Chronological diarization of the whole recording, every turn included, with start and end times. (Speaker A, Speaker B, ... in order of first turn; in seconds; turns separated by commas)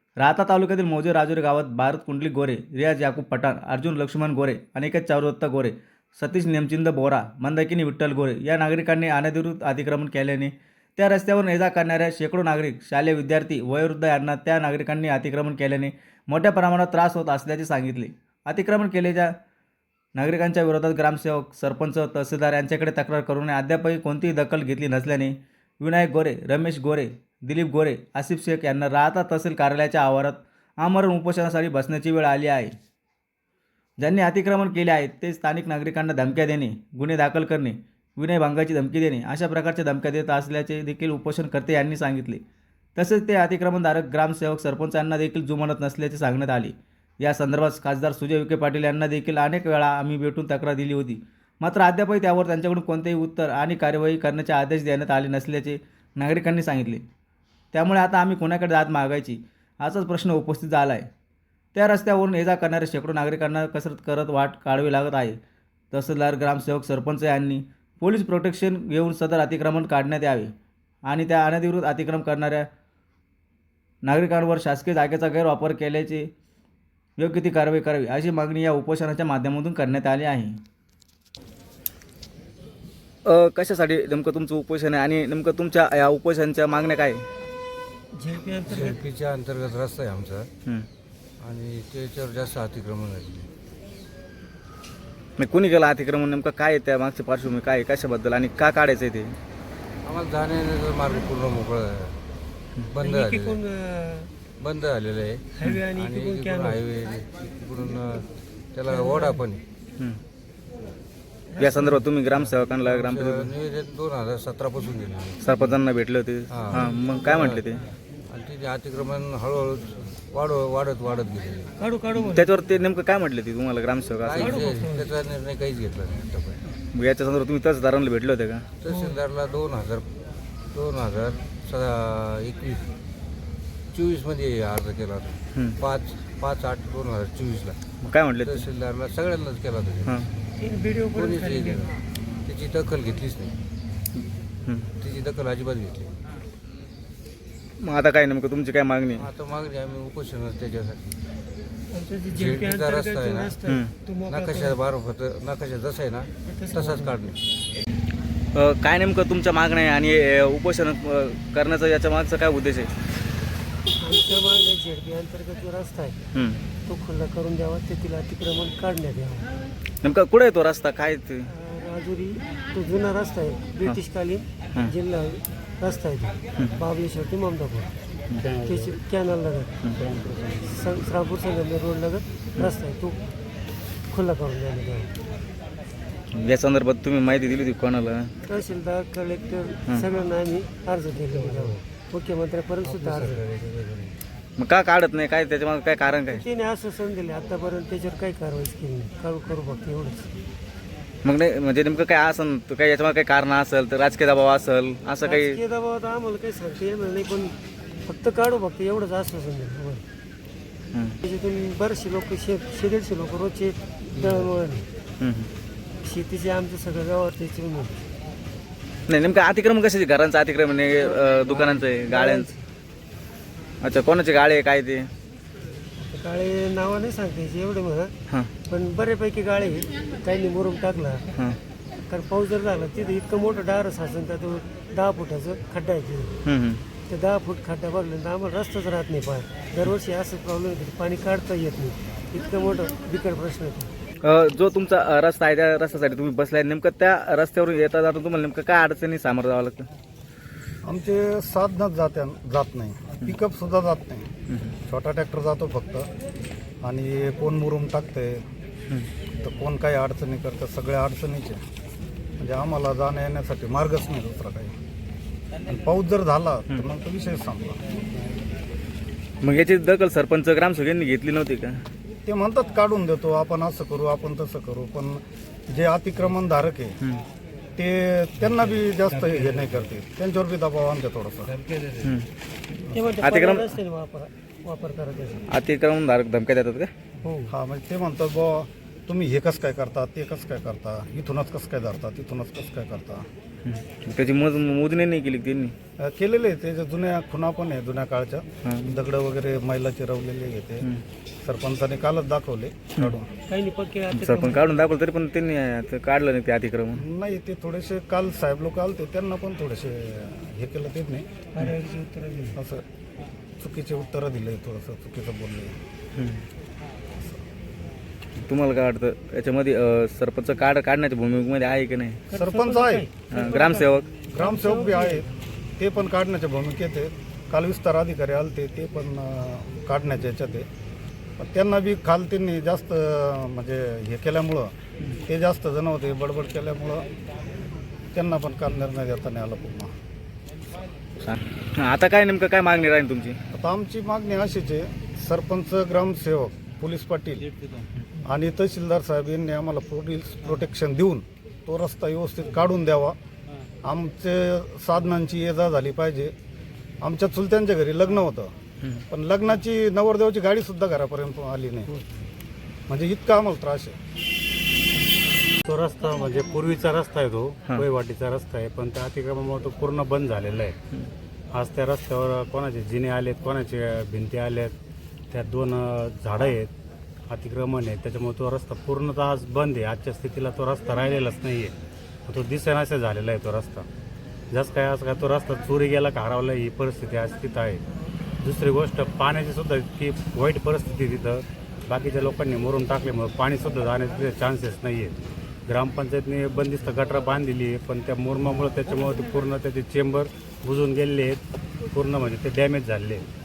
Speaker A: 0.2-19.3, Speaker A: 20.1-32.7, Speaker A: 34.0-42.4, Speaker A: 43.0-57.0, Speaker A: 57.7-61.1, Speaker A: 61.7-65.4, Speaker A: 65.9-70.5, Speaker A: 71.0-72.7, Speaker A: 74.0-76.3, Speaker A: 77.2-80.6, Speaker A: 83.2-87.2, Speaker B: 88.1-89.0, Speaker C: 88.7-90.5, Speaker C: 91.4-93.5, Speaker A: 95.4-99.3, Speaker C: 100.0-102.2, Speaker C: 102.9-103.6, Speaker B: 103.0-104.3, Speaker C: 104.6-109.6, Speaker B: 105.5-106.8, Speaker B: 108.9-109.4, Speaker B: 111.5-112.1, Speaker A: 111.6-113.5, Speaker C: 112.3-115.8, Speaker A: 115.4-117.8, Speaker C: 116.5-117.7, Speaker C: 118.3-121.7, Speaker B: 121.8-122.5, Speaker A: 122.1-124.6, Speaker C: 124.2-126.6, Speaker B: 124.4-125.1, Speaker A: 126.9-128.7, Speaker C: 128.8-130.1, Speaker B: 128.8-129.2, Speaker C: 130.7-132.9, Speaker C: 133.9-137.8, Speaker A: 138.0-138.7, Speaker C: 138.4-140.2, Speaker B: 140.6-141.9, Speaker C: 141.1-143.5, Speaker A: 144.7-144.9, Speaker C: 145.0-146.2, Speaker A: 147.8-149.3, Speaker C: 149.2-151.2, Speaker B: 151.9-154.8, Speaker C: 152.3-153.5, Speaker C: 154.3-157.4, Speaker B: 156.4-157.2, Speaker A: 158.5-162.9, Speaker B: 164.0-166.2, Speaker A: 166.3-166.6, Speaker B: 166.8-169.5, Speaker A: 170.0-171.5, Speaker B: 171.4-177.9, Speaker D: 178.4-178.7, Speaker B: 178.5-179.7, Speaker D: 180.0-180.6, Speaker B: 180.6-183.2, Speaker B: 184.1-185.1, Speaker A: 186.3-188.3, Speaker B: 188.4-193.4, Speaker C: 191.3-191.8, Speaker C: 192.8-194.2, Speaker A: 194.6-196.4, Speaker B: 196.3-200.3, Speaker A: 201.2-205.6, Speaker B: 205.2-210.0, Speaker B: 211.2-214.9, Speaker A: 215.2-215.5, Speaker B: 216.0-218.0, Speaker A: 219.1-222.5, Speaker B: 222.0-222.6, Speaker A: 223.8-225.1, Speaker B: 226.0-228.1, Speaker B: 228.7-231.3, Speaker B: 232.1-236.4, Speaker A: 236.4-236.8, Speaker B: 237.1-243.9, Speaker A: 244.2-249.9, Speaker D: 250.8-254.3, Speaker D: 254.8-256.1, Speaker D: 256.8-258.4, Speaker D: 259.4-261.6, Speaker D: 262.4-264.8, Speaker D: 265.6-267.8, Speaker A: 269.4-271.8, Speaker D: 272.2-277.0, Speaker D: 277.8-281.6, Speaker C: 281.6-282.0, Speaker A: 282.0-282.3, Speaker B: 282.9-285.4, Speaker A: 283.2-283.8, Speaker A: 285.5-286.9, Speaker B: 287.2-287.5, Speaker D: 287.5-293.3, Speaker A: 293.6-295.7, Speaker D: 296.0-300.9, Speaker A: 298.6-298.9, Speaker D: 301.4-303.3, Speaker B: 303.5-304.9, Speaker A: 304.1-307.0, Speaker D: 306.9-311.3, Speaker B: 311.5-312.6, Speaker D: 312.6-312.8, Speaker D: 313.6-315.8, Speaker A: 316.1-316.4, Speaker A: 318.4-322.2, Speaker B: 322.3-325.3, Speaker D: 322.3-323.1, Speaker A: 323.3-324.1, Speaker D: 324.3-325.2, Speaker D: 325.8-330.7, Speaker D: 331.4-337.1, Speaker D: 338.1-339.9, Speaker A: 341.2-343.4, Speaker D: 343.5-347.5, Speaker D: 348.2-353.2, Speaker D: 353.8-356.3, Speaker D: 357.0-358.5, Speaker D: 359.1-361.9, Speaker D: 362.9-364.0, Speaker E: 365.6-370.8, Speaker E: 371.5-374.8, Speaker E: 375.3-376.7, Speaker E: 377.3-383.9, Speaker E: 384.5-387.8, Speaker E: 388.4-403.3